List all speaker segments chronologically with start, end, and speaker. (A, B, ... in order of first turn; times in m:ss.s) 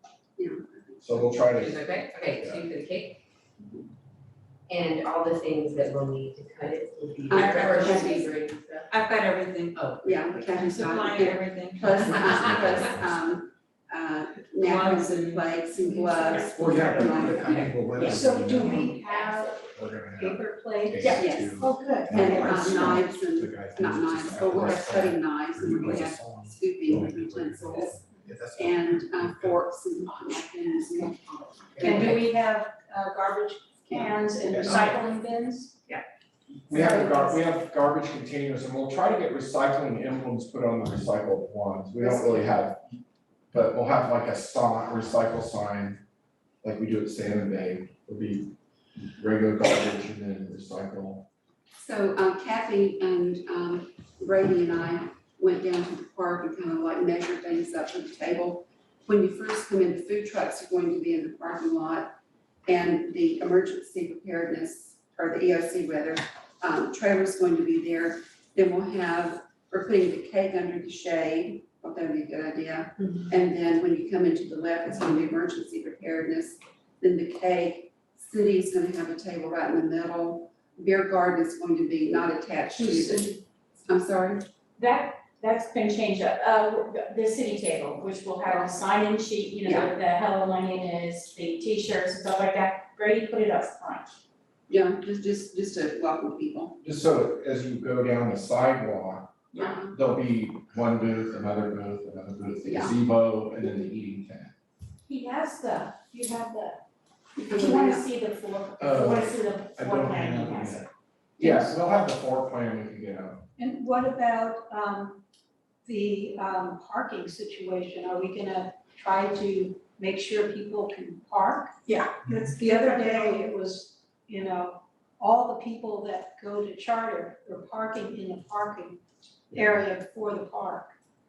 0:00.4-0:01.5 A
0:01.0-0:02.7 B
0:01.5-0:03.2 C
0:01.8-0:02.2 D
0:04.7-0:08.9 C
0:07.3-0:08.4 A
0:07.4-0:07.9 D
0:08.9-0:10.0 D
0:09.7-0:10.5 C
0:10.0-0:17.6 A
0:10.5-0:13.0 D
0:12.2-0:13.0 B
0:14.6-0:16.4 D
0:16.5-0:19.0 B
0:18.0-0:23.0 E
0:19.7-0:29.6 B
0:21.0-0:28.0 A
0:28.5-0:32.2 A
0:31.8-0:35.8 E
0:33.9-0:34.8 A
0:34.5-0:35.0 B
0:34.7-0:35.0 F
0:36.7-0:43.0 B
0:36.7-0:37.4 A
0:42.0-0:42.6 A
0:43.5-0:46.0 B
0:46.6-0:48.5 B
0:49.2-0:51.2 B
0:51.8-1:02.1 A
1:02.7-1:24.4 A
1:24.8-1:34.1 F
1:28.4-1:28.7 A
1:34.7-1:36.8 A
1:36.8-1:39.3 B
1:39.5-1:39.8 F
1:39.6-1:40.0 A
1:39.9-1:44.5 B
1:42.5-1:43.0 A
1:45.0-1:46.8 F
1:47.4-1:48.0 A
1:47.5-1:50.8 F
1:48.8-1:50.9 B
1:51.4-1:53.4 B
1:51.4-1:51.7 A
1:53.6-1:55.2 E
1:55.8-2:10.9 E